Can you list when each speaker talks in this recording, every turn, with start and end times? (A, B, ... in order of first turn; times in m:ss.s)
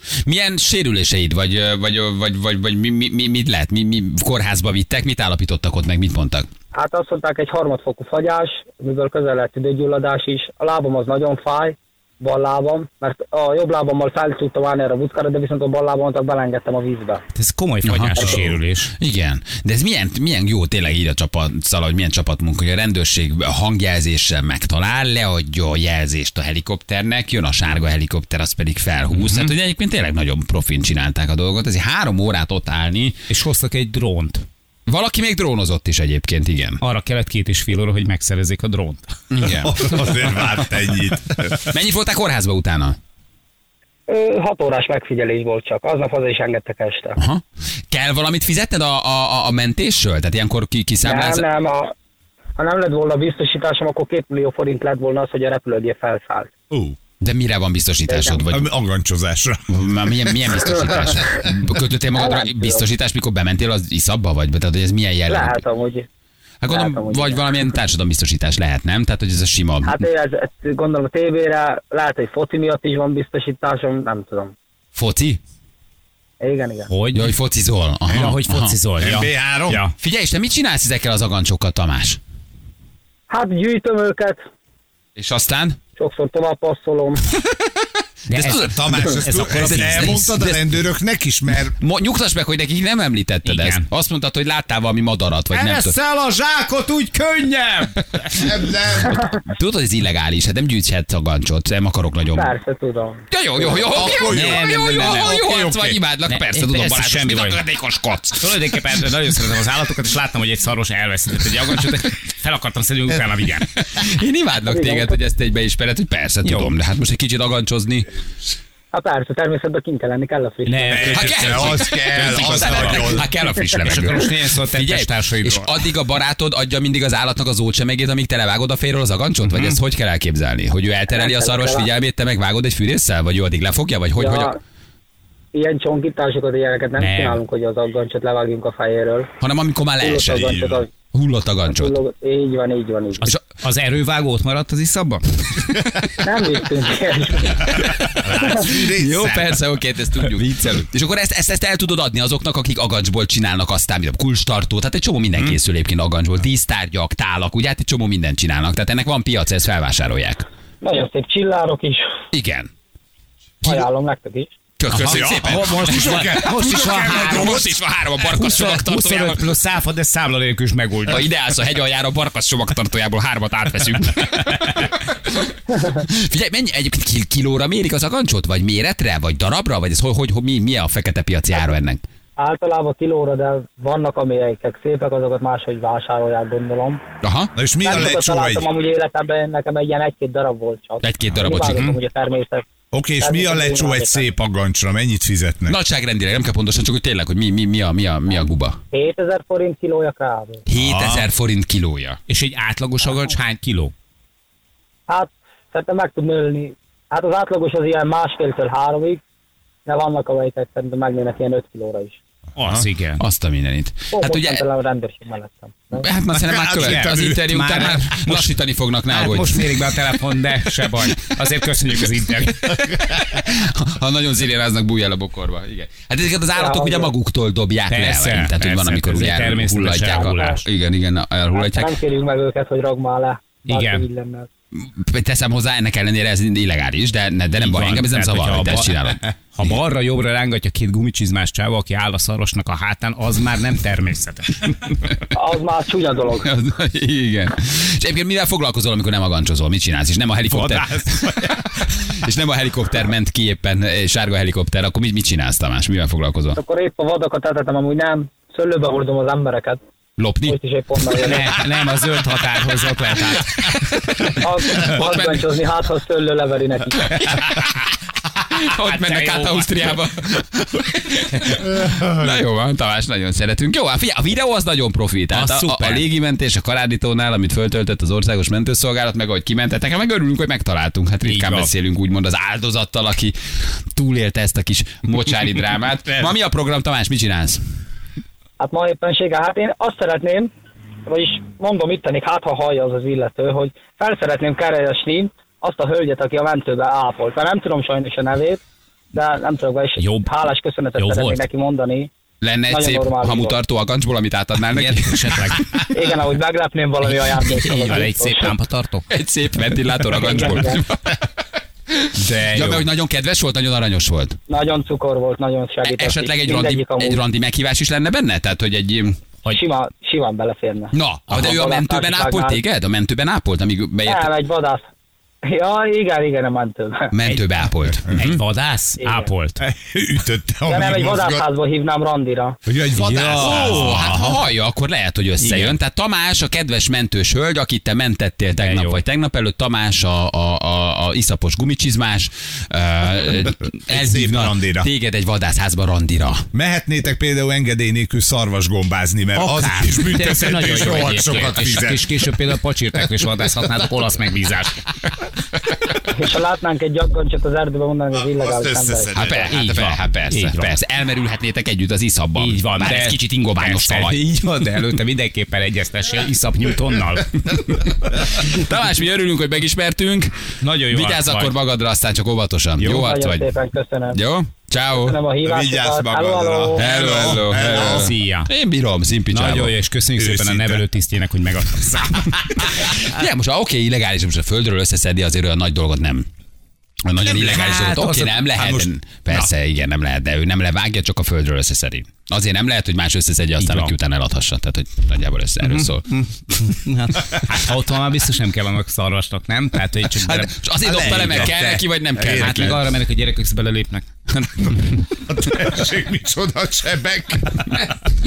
0:00.2-0:06.5 A
0:06.7-0:17.2 B
0:17.3-0:18.9 C
0:17.8-0:33.2 A
0:29.1-0:29.5 C
0:33.3-0:34.4 C
0:34.9-0:36.8 A
0:36.8-0:39.0 C
0:39.3-0:40.7 A
0:39.4-0:41.6 D
0:41.6-0:43.0 A
0:44.1-0:47.2 B
0:47.2-0:51.4 A
0:51.0-0:51.9 B
0:52.6-0:56.5 B
0:56.7-0:57.0 D
0:57.2-0:58.7 A
0:58.1-0:58.4 B
0:58.5-0:59.8 D
0:59.7-1:05.6 A
1:00.9-1:01.3 B
1:02.1-1:02.9 B
1:05.3-1:06.1 B
1:06.6-1:10.0 A
1:06.7-1:07.5 B
1:09.8-1:14.5 B
1:14.9-1:15.4 A
1:16.4-1:16.9 B
1:16.9-1:17.3 C
1:17.1-1:18.7 A
1:18.1-1:19.9 C
1:19.0-1:19.8 D
1:20.0-1:22.2 A
1:23.3-1:24.4 B
1:25.2-1:25.8 A
1:26.0-1:27.2 B
1:28.3-1:30.3 C
1:28.3-1:30.7 A
1:28.7-1:31.7 D
1:31.7-1:36.0 A
1:33.4-1:33.8 C
1:35.5-1:38.4 C
1:38.4-1:39.2 D
1:39.0-1:42.5 A
1:42.3-1:43.8 B
1:43.3-1:48.6 A
1:43.8-1:46.0 D
1:44.2-1:45.4 C
1:46.2-1:47.6 C
1:48.4-1:53.7 C
1:53.7-1:58.1 A
1:54.7-1:55.2 B
1:56.4-1:56.7 C
1:58.9-2:01.2 B
2:00.6-2:01.8 C
2:00.9-2:03.3 D
2:01.1-2:14.5 A
2:02.4-2:05.8 C
2:09.4-2:09.8 C
2:11.1-2:11.9 B
2:14.2-2:14.6 B
2:15.5-2:19.3 B
2:17.0-2:17.4 C
2:19.4-2:20.5 A
2:20.0-2:20.9 B
2:20.2-2:20.8 D
2:21.1-2:22.0 A
2:21.7-2:23.3 B
2:23.2-2:26.0 C
2:26.2-2:28.6 B
2:27.7-2:40.5 A
2:28.2-2:29.6 D
2:40.8-2:42.2 B
2:42.3-2:42.7 A
2:43.6-2:44.5 B
2:44.8-2:49.5 A
2:44.9-2:51.2 C
2:45.0-2:47.4 D
2:51.1-3:02.0 A
3:02.4-3:07.0 B
3:07.2-3:07.5 A
3:07.5-3:08.7 D
3:07.8-3:12.6 B
3:11.0-3:12.0 A
3:12.9-3:15.8 D
3:13.2-3:14.3 B
3:15.7-3:18.8 A
3:18.9-3:20.6 B
3:20.7-3:22.2 A
3:20.8-3:21.3 D
3:22.3-3:23.9 C
3:25.1-3:29.2 B
3:29.8-3:32.2 B
3:32.6-3:33.2 C
3:32.7-3:34.6 A
3:34.1-3:36.0 B
3:36.0-3:39.8 A
3:36.4-3:37.4 D
3:36.8-3:38.5 C
3:39.1-3:42.7 C
3:42.6-3:52.0 A
3:46.5-3:47.1 B
3:47.9-3:50.6 C
3:50.2-3:50.6 B
3:51.5-3:54.5 B
3:53.6-3:54.0 C
3:54.8-3:59.8 A
3:57.5-4:04.9 C
4:05.3-4:06.5 B
4:06.4-4:16.6 A
4:10.5-4:11.0 C
4:16.6-4:19.8 B
4:20.2-4:20.6 A
4:20.4-4:21.5 B
4:21.2-4:24.2 C
4:24.1-4:25.5 A
4:24.3-4:27.4 B
4:27.2-4:27.8 A
4:28.4-4:47.6 A
4:28.8-4:29.8 C
4:35.3-4:36.1 C
4:41.2-4:41.7 C
4:48.6-4:50.5 B
4:51.1-4:58.6 B
4:59.1-5:02.1 B
5:00.0-5:00.3 C
5:01.0-5:01.4 C
5:02.4-5:05.6 A
5:02.7-5:03.6 B
5:04.7-5:05.9 C
5:05.9-5:08.6 B
5:07.0-5:09.0 C
5:09.1-5:11.2 A
5:10.1-5:10.8 B
5:11.9-5:14.4 A
5:12.2-5:12.9 C
5:14.5-5:17.2 B
5:15.8-5:19.2 A
5:19.5-5:22.6 B
5:20.9-5:24.3 A
5:21.3-5:21.6 C
5:24.0-5:24.9 B
5:25.4-5:27.1 B
5:27.1-5:28.4 A
5:28.1-5:29.6 C
5:29.0-5:29.3 B
5:29.6-5:31.4 D
5:30.6-5:32.6 B
5:32.6-5:34.4 D
5:33.0-5:34.1 C
5:33.0-5:46.4 A
5:35.4-5:35.8 C
5:38.6-5:39.0 C
5:43.9-5:44.9 D
5:46.5-5:52.6 D
5:49.4-5:54.8 C
5:50.9-5:51.5 A
5:56.0-5:59.2 B
5:58.2-5:59.6 D
5:59.1-6:04.2 A
5:59.4-6:00.7 C
6:02.4-6:07.8 C
6:07.7-6:13.4 A
6:10.6-6:11.5 C
6:12.8-6:13.1 C
6:12.9-6:14.2 B
6:14.1-6:15.2 A
6:15.0-6:16.9 B
6:15.4-6:18.1 D
6:16.8-6:19.7 A
6:17.5-6:18.5 C
6:19.3-6:22.7 C
6:20.2-6:20.8 D
6:22.5-6:26.3 A
6:27.0-6:36.0 A
6:27.4-6:28.4 C
6:28.6-6:29.5 D
6:33.6-6:33.9 C
6:35.6-6:41.6 C
6:40.0-6:42.8 A
6:40.8-6:42.8 D
6:42.3-6:44.9 C
6:45.2-6:47.9 D